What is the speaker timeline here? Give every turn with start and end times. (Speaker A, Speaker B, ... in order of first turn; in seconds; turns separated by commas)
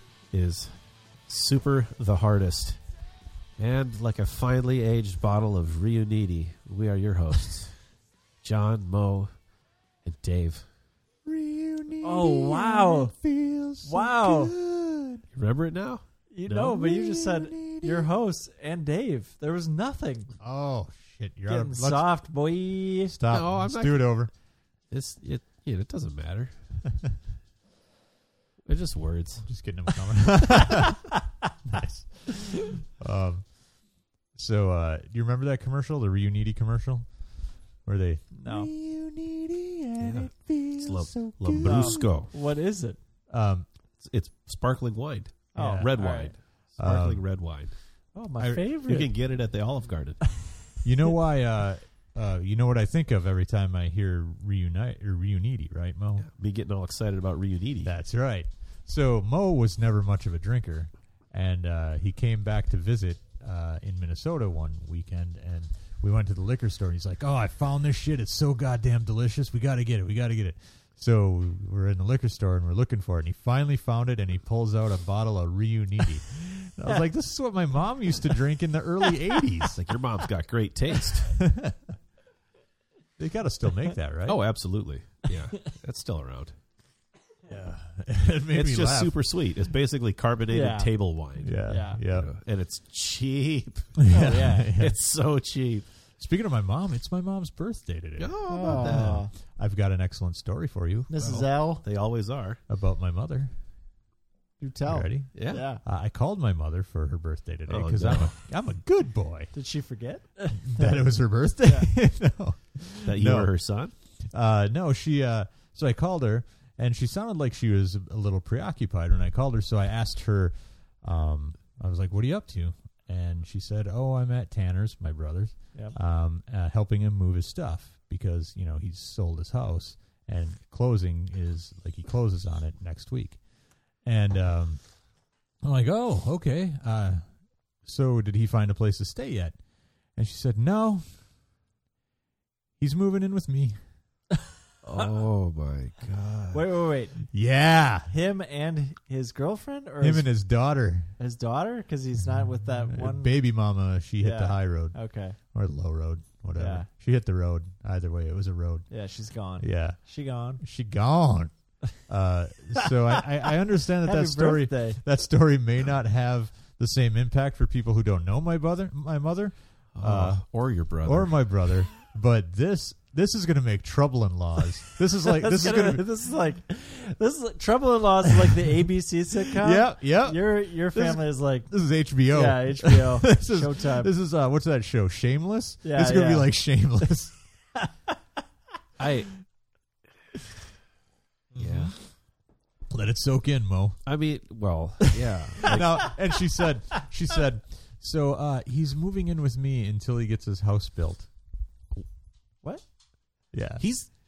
Speaker A: 0.3-0.8, Speaker A: 1.3-2.8, Speaker A: 3.6-7.8, Speaker A: 8.4-9.3, Speaker A: 10.0-10.7, Speaker B: 11.2-15.2, Speaker C: 12.0-13.1, Speaker C: 13.8-14.5, Speaker A: 15.3-16.8, Speaker C: 16.3-20.3, Speaker B: 16.7-18.1, Speaker B: 20.4-22.1, Speaker C: 21.5-23.1, Speaker B: 23.1-24.3, Speaker A: 23.3-24.2, Speaker A: 24.9-26.5, Speaker A: 28.6-29.5, Speaker B: 29.4-31.0, Speaker B: 31.6-33.8, Speaker B: 34.3-42.1, Speaker C: 38.3-38.7, Speaker A: 40.0-42.3, Speaker C: 41.6-43.0, Speaker B: 43.3-43.6, Speaker A: 44.0-47.7, Speaker C: 45.5-46.3, Speaker B: 45.5-45.9, Speaker B: 46.8-47.2, Speaker C: 48.1-49.1, Speaker B: 48.4-48.6, Speaker A: 48.8-50.3, Speaker B: 50.8-56.3, Speaker A: 56.2-57.9, Speaker B: 57.8-79.8, Speaker A: 79.7-81.4, Speaker B: 81.4-81.9, Speaker B: 83.2-84.4, Speaker A: 84.2-86.5, Speaker B: 87.5-89.2, Speaker A: 88.5-94.0, Speaker C: 90.5-90.9, Speaker B: 91.4-92.3, Speaker C: 91.7-92.0, Speaker B: 94.0-95.0, Speaker C: 94.1-94.8, Speaker A: 94.8-95.9, Speaker B: 96.2-101.1, Speaker A: 98.2-99.2, Speaker C: 98.5-99.3, Speaker C: 101.1-101.8, Speaker A: 101.2-102.6, Speaker B: 102.7-103.5, Speaker C: 104.6-105.8, Speaker B: 104.9-109.5, Speaker A: 105.3-105.6, Speaker A: 107.7-108.3, Speaker C: 109.5-111.0, Speaker B: 110.5-113.5, Speaker C: 111.6-111.9, Speaker A: 113.0-113.9, Speaker B: 114.2-133.4, Speaker B: 134.0-134.8, Speaker B: 135.6-137.2, Speaker B: 137.8-139.6, Speaker B: 140.1-141.1, Speaker B: 142.8-143.8, Speaker A: 144.8-146.6, Speaker C: 146.5-147.3, Speaker B: 147.3-148.1, Speaker C: 148.1-150.3, Speaker B: 150.0-151.1, Speaker C: 151.2-153.4, Speaker B: 152.2-155.0, Speaker C: 154.2-155.4, Speaker B: 155.5-158.9, Speaker C: 156.5-156.9, Speaker C: 158.9-160.6, Speaker B: 159.6-160.0, Speaker B: 160.6-170.4, Speaker C: 162.8-165.0, Speaker A: 169.9-171.4, Speaker B: 171.0-176.1, Speaker C: 175.2-184.1, Speaker B: 179.6-187.4, Speaker C: 185.8-186.5, Speaker A: 189.0-189.3, Speaker B: 191.5-192.0, Speaker A: 191.6-191.9, Speaker B: 192.9-194.0, Speaker A: 194.1-196.2, Speaker B: 195.6-201.3, Speaker B: 203.5-203.8, Speaker A: 203.8-204.1